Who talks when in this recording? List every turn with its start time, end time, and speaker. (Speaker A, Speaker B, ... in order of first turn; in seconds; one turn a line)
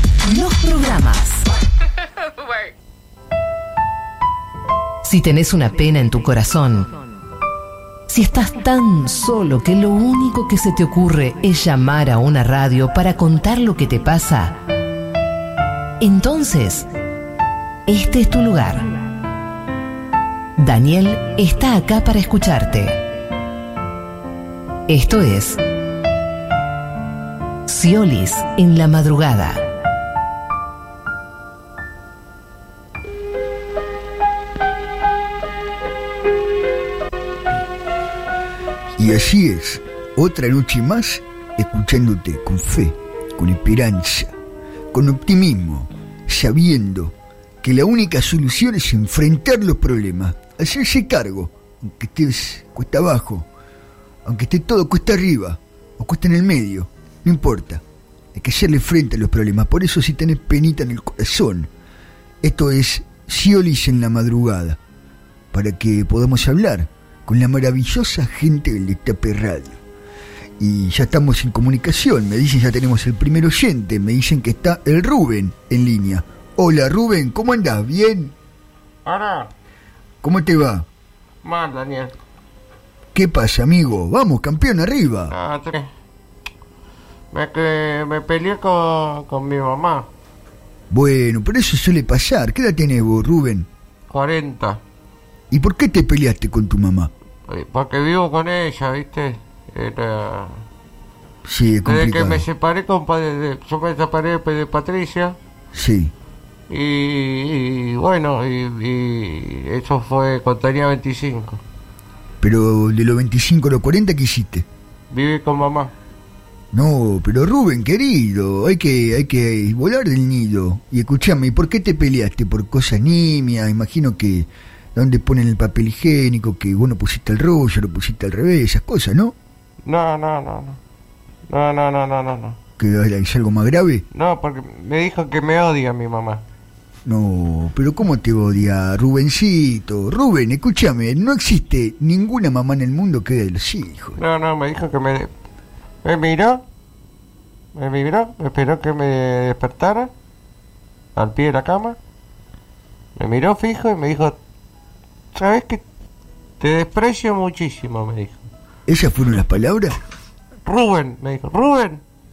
Speaker A: 0.2-1.4
Speaker A: 5.0-6.9
Speaker A: 8.1-14.6
Speaker A: 16.0-16.9
Speaker A: 17.9-18.9
Speaker A: 20.6-23.0
Speaker A: 24.9-25.6
Speaker A: 27.7-29.6
Speaker B: 39.0-44.3
Speaker B: 44.9-53.5
Speaker B: 54.3-57.8
Speaker B: 58.4-61.7
Speaker B: 62.4-64.8
Speaker B: 65.5-69.8
Speaker B: 70.6-78.3
Speaker C: 79.0-79.5
Speaker B: 80.2-80.9
Speaker C: 81.4-82.1
Speaker B: 83.1-85.3
Speaker C: 85.3-85.9
Speaker C: 87.3-90.0
Speaker B: 90.9-93.7
Speaker C: 94.1-94.8
Speaker B: 95.5-97.1
Speaker C: 97.5-100.6
Speaker B: 101.5-102.5
Speaker C: 101.8-105.4
Speaker B: 105.7-106.1
Speaker C: 106.7-111.6
Speaker B: 112.4-114.7
Speaker C: 115.1-115.9
Speaker B: 116.7-129.3
Speaker C: 129.8-130.8
Speaker C: 131.5-132.6
Speaker B: 132.8-134.0
Speaker C: 134.1-136.4
Speaker B: 137.1-144.2
Speaker C: 144.2-145.3
Speaker C: 146.0-146.6
Speaker C: 147.8-150.1
Speaker C: 151.2-152.0
Speaker C: 153.2-154.4
Speaker C: 155.3-155.8
Speaker C: 156.6-158.5
Speaker B: 158.9-160.0
Speaker C: 160.7-162.0